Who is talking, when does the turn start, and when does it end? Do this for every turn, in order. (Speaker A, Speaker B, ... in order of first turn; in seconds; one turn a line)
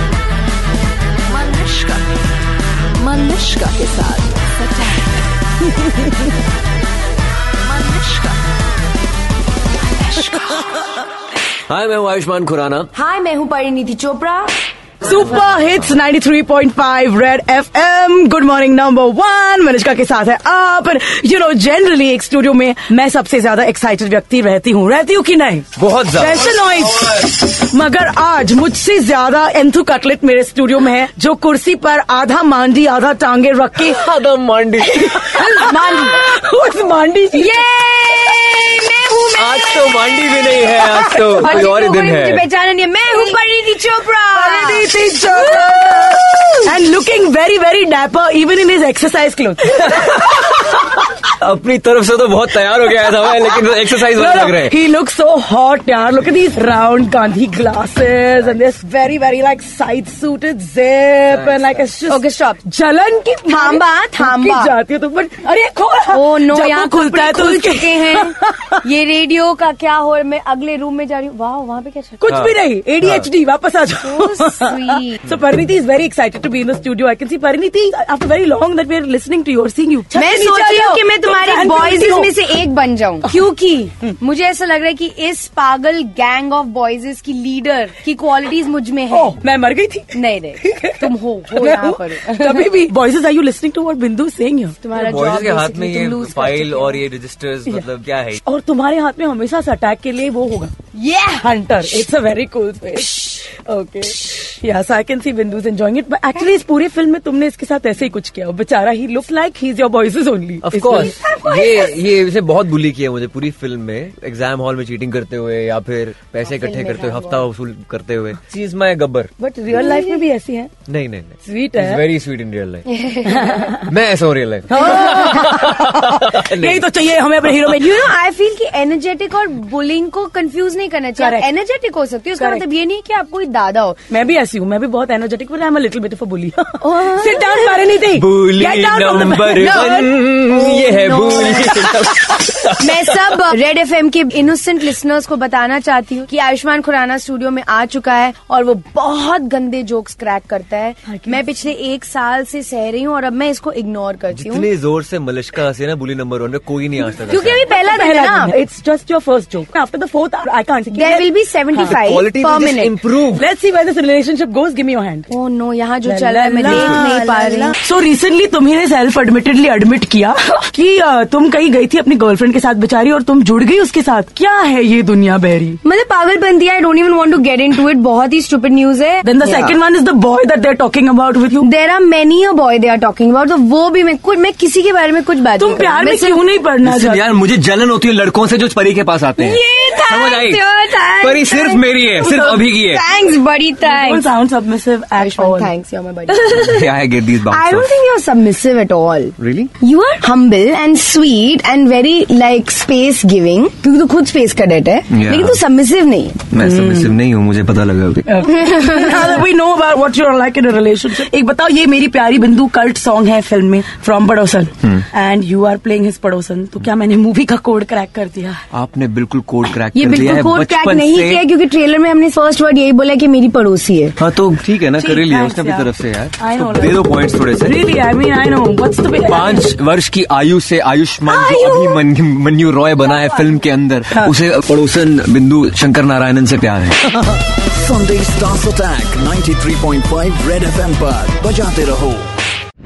Speaker A: 1.3-2.0
Speaker A: 3.0-5.1
Speaker A: 7.6-8.4
Speaker A: 9.8-10.7
Speaker B: 11.7-12.9
Speaker C: 12.9-14.6
Speaker D: 15.0-34.0
Speaker B: 15.4-15.8
Speaker B: 25.8-26.5
Speaker B: 33.8-35.5
Speaker D: 35.0-37.7
Speaker C: 35.3-36.0
Speaker C: 37.3-40.6
Speaker B: 39.4-42.4
Speaker C: 41.4-46.6
Speaker D: 41.4-41.7
Speaker D: 44.3-50.2
Speaker B: 49.9-54.7
Speaker D: 53.9-68.8
Speaker B: 61.3-61.8
Speaker C: 62.1-62.6
Speaker C: 63.5-64.7
Speaker C: 66.1-72.2
Speaker D: 72.2-82.5
Speaker B: 72.3-73.3
Speaker C: 74.0-75.2
Speaker C: 80.1-89.3
Speaker D: 89.1-94.9
Speaker C: 90.1-92.7
Speaker C: 94.8-97.0
Speaker B: 94.9-98.4
Speaker D: 98.4-100.7
Speaker C: 100.9-101.5
Speaker D: 101.4-111.2
Speaker B: 110.6-119.8
Speaker C: 111.2-111.9
Speaker C: 116.4-117.4
Speaker D: 119.4-120.7
Speaker C: 119.8-120.2
Speaker B: 120.9-122.9
Speaker D: 121.4-122.0
Speaker C: 122.9-123.7
Speaker D: 123.2-123.9
Speaker B: 123.8-126.9
Speaker D: 124.7-128.0
Speaker C: 124.9-125.3
Speaker C: 127.7-134.0
Speaker D: 131.2-131.5
Speaker D: 132.4-132.6
Speaker D: 134.1-140.1
Speaker C: 136.8-137.8
Speaker B: 138.1-143.2
Speaker C: 139.7-142.1
Speaker C: 142.8-154.7
Speaker D: 151.1-151.5
Speaker B: 154.3-157.7
Speaker C: 157.3-158.6
Speaker D: 157.7-162.0
Speaker C: 160.9-162.9
Speaker B: 161.8-163.4
Speaker D: 163.3-165.3
Speaker C: 165.3-167.8
Speaker D: 166.1-175.8
Speaker C: 175.8-179.8
Speaker D: 179.2-181.7
Speaker C: 181.6-186.4
Speaker D: 185.6-187.3
Speaker B: 186.8-193.0
Speaker C: 189.4-191.9
Speaker D: 192.2-192.7
Speaker C: 192.8-194.2
Speaker D: 193.8-195.7
Speaker C: 195.2-206.5
Speaker B: 196.3-197.9
Speaker B: 199.4-199.7
Speaker B: 205.1-205.6
Speaker B: 206.5-208.5
Speaker D: 206.6-207.1
Speaker D: 208.2-218.6
Speaker C: 208.7-209.0
Speaker B: 218.7-221.4
Speaker C: 219.9-224.1
Speaker B: 224.2-227.8
Speaker D: 224.9-227.1
Speaker D: 227.6-229.7
Speaker B: 229.3-237.0
Speaker D: 231.3-231.9
Speaker E: 237.7-242.2